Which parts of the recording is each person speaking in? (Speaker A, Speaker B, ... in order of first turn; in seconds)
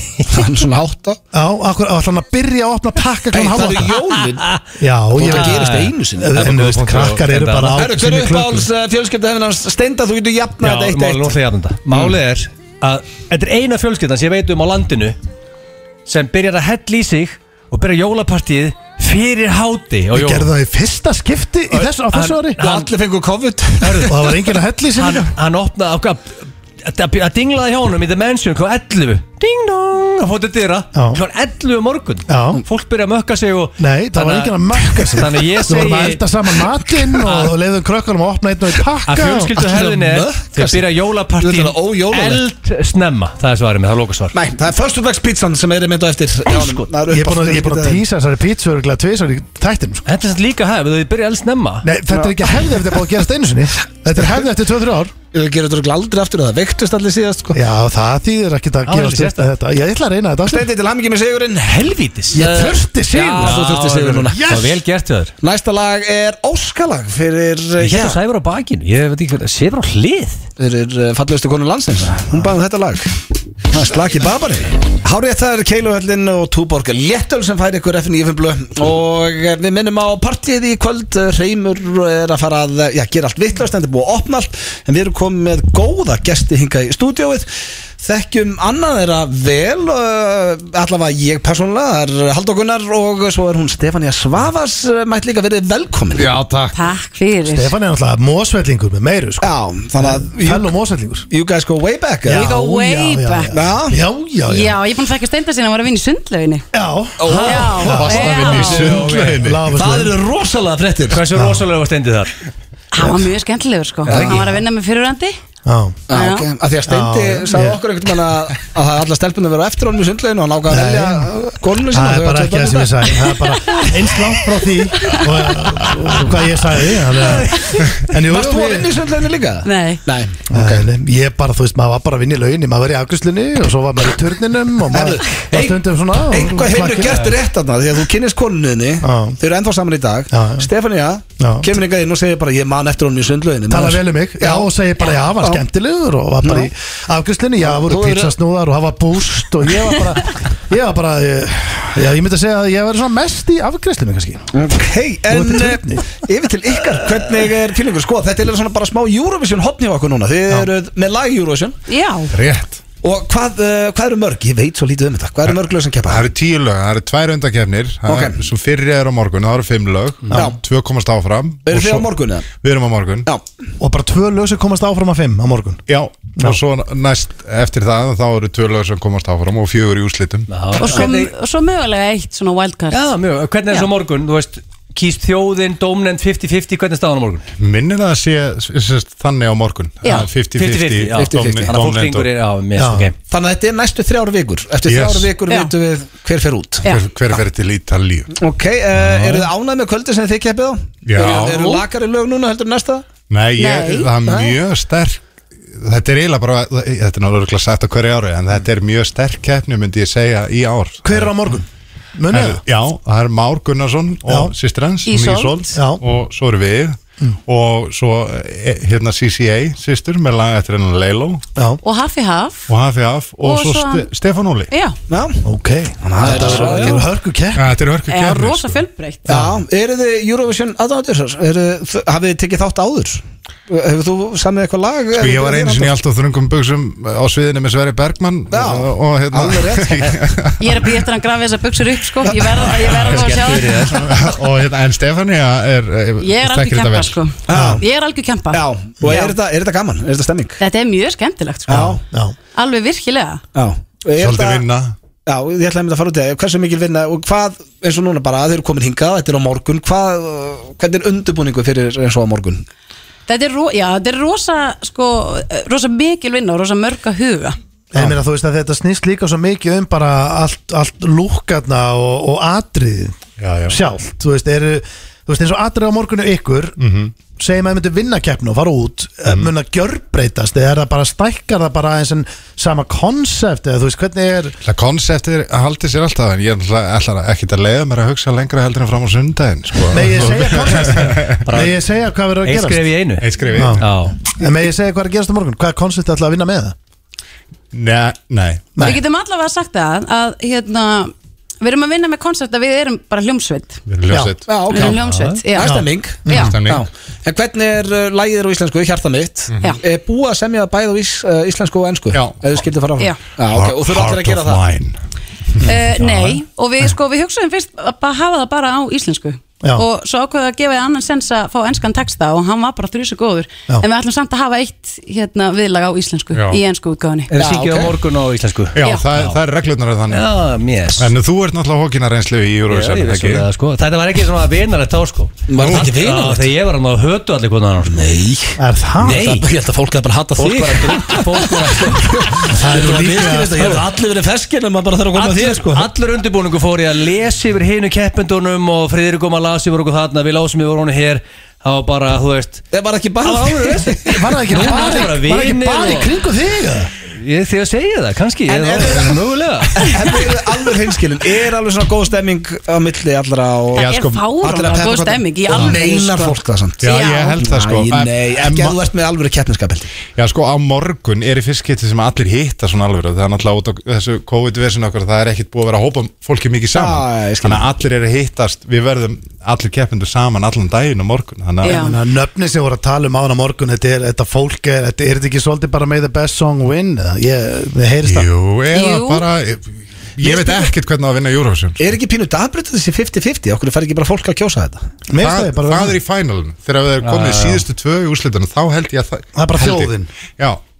Speaker A: 0.3-1.2, 3.3-4.5, 5.1-6.4, 7.8-11.3, 22.6-24.1, 39.5-40.9, 41.4-42.4, 44.3-48.0, 52.1-52.6, 55.3-57.6, 60.5-64.6, 65.4-68.2, 70.6-73.1, 73.7-87.5, 88.0-96.3, 99.4-100.7, 101.3-102.5, 103.5-104.0, 107.2-108.7, 109.7-111.2, 114.1-114.4, 116.1-123.2, 128.3-130.8, 134.9-144.7, 145.3-145.6, 146.4-146.7, 147.6-148.3, 154.5-161.8, 163.0-166.2, 168.1-168.4, 170.3-170.6, 171.7-172.5, 191.1-191.7, 193.3-196.9, 198.3-203.1, 204.2-204.6, 225.1-225.4, 226.0-227.0, 229.3-235.9, 238.5-240.2, 247.5-247.8, 248.5-250.6, 251.7-252.0, 253.5-254.6, 255.2-262.6, 304.5-305.0, 305.5-314.6, 327.3-327.9, 335.5-336.5, 337.8-345.9, 352.7-355.0, 358.5-359.2, 359.7-369.9, 376.7-377.7, 390.2-390.7, 391.8-394.8
Speaker B: 1.3-3.9, 4.8-8.7, 20.1-22.6, 24.1-25.3, 30.9-31.2, 32.3-32.6, 33.8-39.5, 47.1-50.0, 51.8-55.1, 57.5-60.7, 62.3-63.6, 64.3-64.7, 97.4-101.3, 102.3-104.8, 106.7-107.3, 107.8-108.2, 109.3-110.1, 111.3-111.7, 115.7-116.1, 116.9-117.8, 120.7-121.3, 121.9-128.9, 130.5-137.2, 139.0-139.4, 140.3-140.7, 141.4-141.8, 143.7-154.5, 155.3-156.0, 173.8-175.8, 192.8-193.1, 211.0-212.6, 214.3-214.5, 215.7-216.0, 225.4-227.8, 229.3-229.6, 247.5-247.8, 251.7-252.3, 267.9-276.8, 277.3-284.6, 289.9-292.9, 293.5-293.8, 294.3-296.8, 304.1-304.3, 305.6-306.5, 338.6-339.2, 342.5-343.8, 354.0-356.9, 381.8-388.3, 395.1-396.0, 399.3-400.1
Speaker C: 5.2-7.9, 10.6-15.2, 16.1-20.5, 21.7-22.9, 23.8-24.3, 24.9-36.3, 37.2-37.5, 39.0-44.3, 46.5-46.8, 50.0-51.9, 58.9-59.5, 61.8-62.5, 63.3-65.3, 67.8-70.4, 107.3-109.5, 111.1-112.3, 114.1-114.5, 127.2-127.5, 180.5-181.3, 182.9-187.4, 190.5-193.1, 226.3-227.0, 243.0-244.0, 291.4-291.8, 292.4-294.2, 304.7-305.4, 327.3-329.4, 330.1-331.1, 332.7-338.2, 339.0-339.5, 340.4-342.5, 345.1-352.6, 353.2-356.1, 357.1-360.1, 397.0-397.6
Speaker D: 96.2-96.8, 107.9-109.7, 162.3-162.8, 165.5-173.3, 175.9-180.5, 187.6-192.3, 194.9-195.3, 196.8-198.4, 199.0-199.4, 201.0-201.7, 203.3-211.5, 212.3-221.4, 222.7-224.7, 227.5-228.8, 235.2-240.9, 243.0-243.3, 243.9-247.2, 254.2-254.9, 273.4-273.8, 276.8-277.1, 284.6-291.4, 293.2-293.9, 297.7-298.8, 303.9-304.5, 306.3-306.9, 312.1-312.4, 313.5-315.0, 326.3-326.6, 328.8-330.3, 331.0-333.4, 363.7-364.3, 366.8-368.8, 370.1-381.9, 388.0-391.9, 395.2-400.6
Speaker E: 96.7-97.7, 102.3-103.5, 104.5-106.7, 107.5-108.9, 112.9-115.3, 116.1-116.5, 125.0-125.5, 129.6-130.0, 161.9-162.3, 180.8-183.0, 190.0-190.3, 203.6-204.1, 215.0-215.7, 221.8-222.7, 223.4-224.1, 224.7-224.9, 228.1-229.2, 240.6-244.1, 246.2-249.3, 250.6-251.9, 252.5-253.4, 263.3-267.6, 298.8-303.8, 304.6-306.5, 315.6-327.3, 328.8-329.0, 363.7-367.5, 381.6-382.0, 388.7-389.2